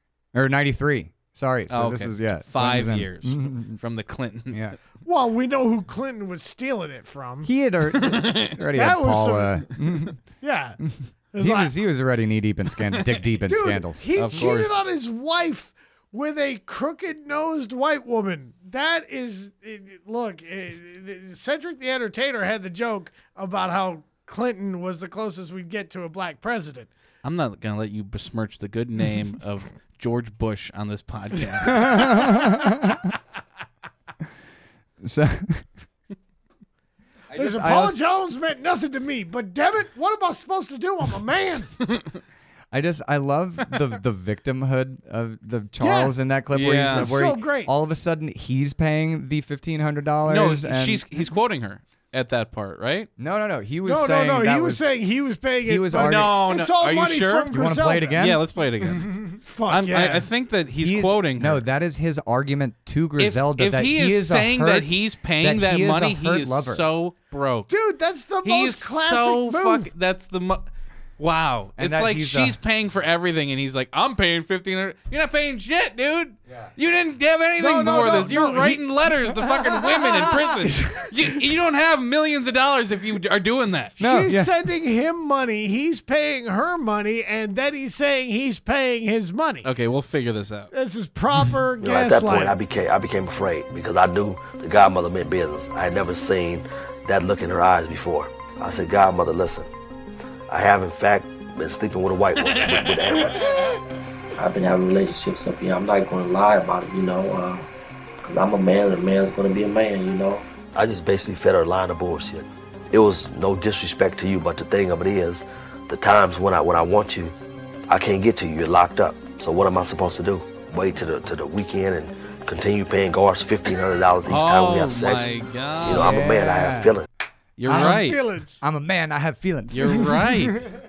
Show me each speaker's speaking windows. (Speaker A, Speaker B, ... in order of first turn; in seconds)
Speaker A: 0.3-3.8, 4.5-4.8, 7.4-10.2, 10.8-14.4, 31.7-33.1, 35.0-35.7, 37.3-38.0, 42.7-51.0, 53.2-54.9, 55.6-56.3, 57.5-58.4, 60.8-66.8, 71.8-72.5, 80.7-81.1, 84.0-84.5, 125.9-127.0, 127.7-128.1, 128.6-130.6
Speaker B: 1.7-4.7, 7.9-8.5, 14.1-14.8, 27.2-32.3, 41.9-42.1, 46.5-47.1, 50.3-53.1, 55.9-57.6, 58.2-61.6, 63.2-67.7, 68.4-70.7, 71.2-84.0, 89.6-90.7, 102.6-102.9, 124.3-126.2, 127.6-128.2, 129.7-130.7
Speaker C: 5.0-7.5, 8.7-9.7, 10.3-10.8, 11.3-11.7, 13.4-26.9, 37.3-41.7, 45.8-46.1, 46.9-47.7, 53.8-58.2, 59.4-60.3, 67.7-69.9, 77.6-78.8, 84.0-89.7, 90.7-92.6, 127.7-128.6
Speaker D: 91.8-99.7, 100.5-103.7, 110.7-117.3, 117.9-127.1
Speaker E: 104.3-107.7, 108.2-110.4